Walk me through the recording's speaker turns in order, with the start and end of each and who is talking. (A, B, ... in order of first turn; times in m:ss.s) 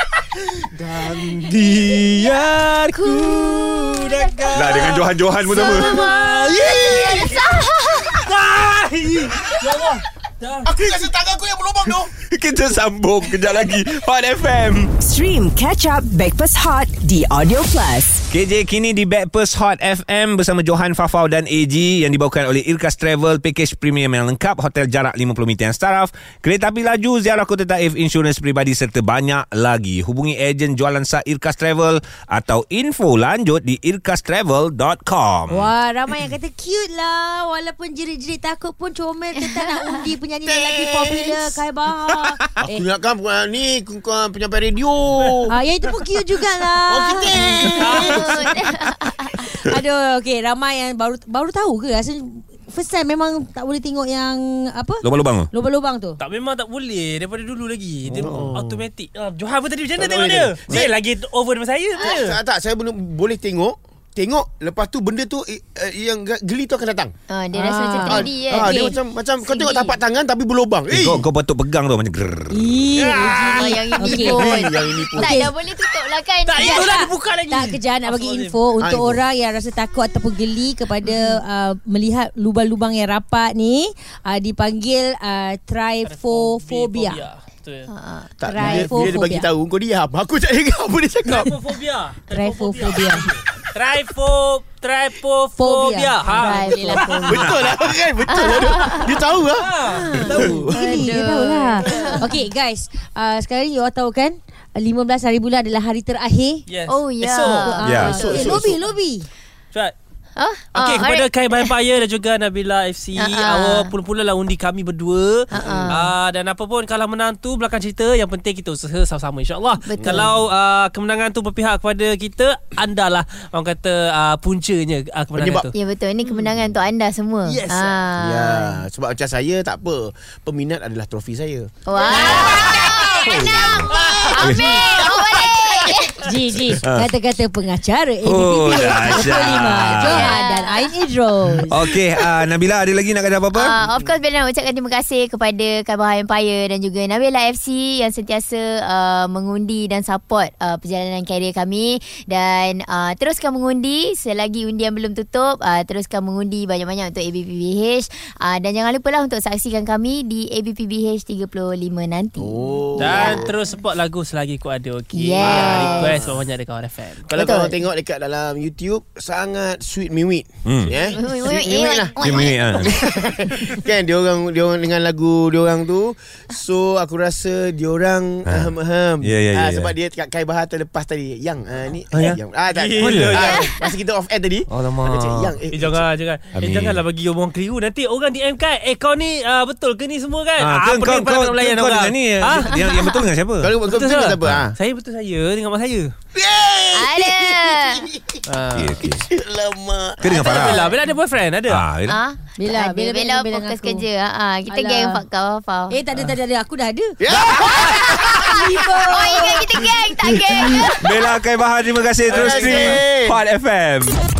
0:00.6-0:10.7 A
0:01.5-0:02.4 B
0:02.9-0:04.9 B
0:04.5-0:06.0 C
0:05.5-0:08.2 B
0:06.6-0:07.2 D
0:10.6-0:12.1 D
0:12.2-0:14.9 C
0:15.0-0:18.2 E
0:15.4-0:17.0 F
0:17.6-0:18.2 F
0:18.3-0:35.7 C
0:35.5-0:42.9 F
0:40.5-0:41.6 D
0:42.6-0:45.6 D
0:45.5-0:48.3 F
0:46.9-0:48.5 D
0:47.8-0:48.3 A
0:47.8-0:49.4 B
0:49.4-0:56.2 F
0:55.0-0:55.5 C
0:56.2-1:02.4 A
0:58.1-0:58.8 D
0:58.2-0:58.5 C
1:00.0-1:00.9 D
1:02.0-1:07.1 D
1:07.3-1:08.9 B
1:07.6-1:09.0 F
1:08.1-1:11.3 D
1:09.4-1:10.0 B
1:10.9-1:12.6 C
1:12.5-1:14.6 F
1:12.9-1:13.8 A
1:13.5-1:17.0 B
1:14.2-1:15.4 D
1:15.2-1:15.5 F
1:16.4-1:18.6 A
1:16.6-1:27.2 F
1:18.8-1:19.2 D
1:21.0-1:21.4 B
1:26.0-1:27.9 A
1:27.9-1:28.3 B
1:28.4-1:31.6 D
1:28.4-1:29.5 F
1:31.2-1:37.5 A
1:32.3-1:33.2 F
1:35.6-1:36.4 F
1:36.3-1:37.5 B
1:36.7-1:41.1 D
1:38.3-1:39.2 B
1:39.5-1:41.0 A
1:40.2-1:46.6 F
1:40.4-1:42.3 B
1:41.9-1:42.2 A
1:46.7-1:48.6 A
1:46.9-1:48.4 B
1:47.5-1:49.3 F
1:47.8-1:48.2 C
1:48.0-1:48.8 D
1:50.4-1:51.7 B
1:50.7-2:05.7 A
1:53.2-1:53.9 B
1:55.5-1:56.1 B
1:55.6-1:56.0 D
1:59.8-2:00.3 B
2:00.0-2:00.3 D
2:05.4-2:05.6 D
2:05.7-2:08.8 B
2:07.4-2:08.0 A
2:08.2-2:13.0 D
2:11.9-2:16.2 B
2:12.0-2:13.3 A
2:13.3-2:14.6 C
2:13.9-2:15.0 A
2:14.6-2:16.1 D
2:16.2-2:21.9 F
2:16.8-2:17.1 C
2:18.2-2:20.3 C
2:18.8-2:19.2 B
2:19.8-2:20.9 B
2:21.7-2:23.8 C
2:23.5-2:43.6 B
2:42.4-2:43.5 D
2:43.0-2:47.3 A
2:45.1-2:46.2 B
2:45.4-2:46.3 D
2:47.3-3:06.0 D
2:47.4-2:47.8 B
2:50.7-2:50.9 C
2:51.0-2:53.0 B
2:52.2-2:53.0 C
2:58.5-2:59.9 C
3:02.7-3:03.8 A
3:03.0-3:03.4 C
3:03.4-3:03.8 B
3:04.7-3:05.6 C
3:05.7-3:13.0 A
3:06.6-3:07.0 C
3:10.6-3:13.7 C
3:12.7-3:13.2 B
3:13.6-3:14.8 D
3:13.8-3:16.1 A
3:16.4-3:18.4 D
3:16.9-3:18.0 B
3:18.5-3:19.1 A
3:18.8-3:19.2 C
3:19.0-3:20.9 D
3:20.2-3:20.8 C
3:20.3-3:21.8 A
3:21.7-3:22.2 C
3:22.1-3:26.0 B
3:22.6-3:24.0 F
3:24.7-3:25.2 F
3:25.9-3:29.6 F
3:27.2-3:28.5 D
3:27.8-3:28.2 B
3:29.1-3:31.2 B
3:31.0-3:34.2 C
3:32.3-3:33.4 D
3:32.3-3:33.0 A